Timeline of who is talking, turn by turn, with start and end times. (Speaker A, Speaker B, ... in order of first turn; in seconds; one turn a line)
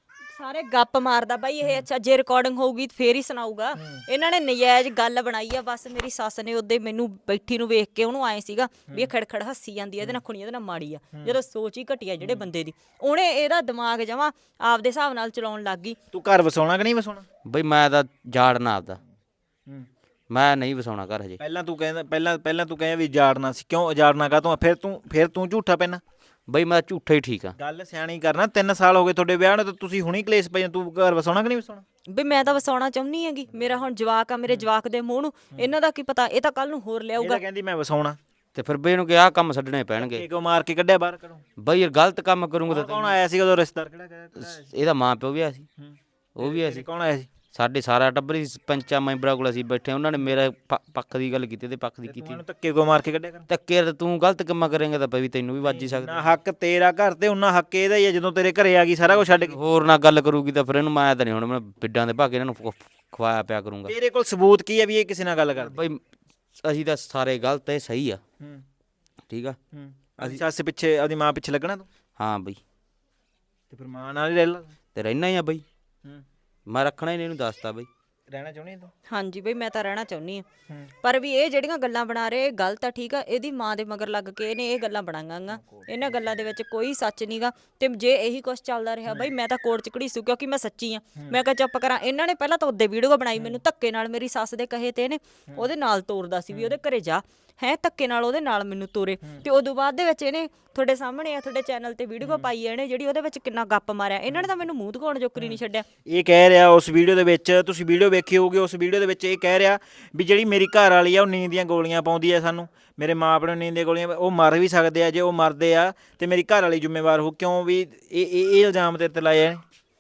Speaker A: 0.3-16.0
Speaker B: 3.8-4.0
Speaker B: 12.2-12.5
Speaker B: 16.1-17.3
Speaker C: 17.5-19.0
Speaker C: 20.3-21.4
Speaker B: 21.4-26.0
Speaker C: 26.5-27.6
Speaker B: 27.6-31.8
Speaker A: 32.1-37.4
Speaker B: 37.2-38.2
Speaker C: 38.5-40.3
Speaker B: 40.0-41.4
Speaker C: 41.6-43.2
Speaker B: 42.7-44.7
Speaker C: 44.4-45.7
Speaker B: 45.8-47.3
Speaker C: 46.4-46.9
Speaker C: 47.5-52.4
Speaker B: 52.0-53.5
Speaker C: 53.5-56.3
Speaker B: 55.6-59.6
Speaker C: 59.1-63.9
Speaker B: 63.9-65.8
Speaker C: 65.6-66.0
Speaker C: 66.6-68.2
Speaker C: 69.3-69.6
Speaker B: 69.7-71.9
Speaker C: 72.2-72.6
Speaker B: 73.7-74.7
Speaker C: 75.0-75.6
Speaker C: 76.7-77.9
Speaker B: 78.3-78.9
Speaker A: 79.1-80.5
Speaker A: 81.0-105.9
Speaker B: 85.5-86.5
Speaker B: 102.2-102.5
Speaker B: 105.4-119.6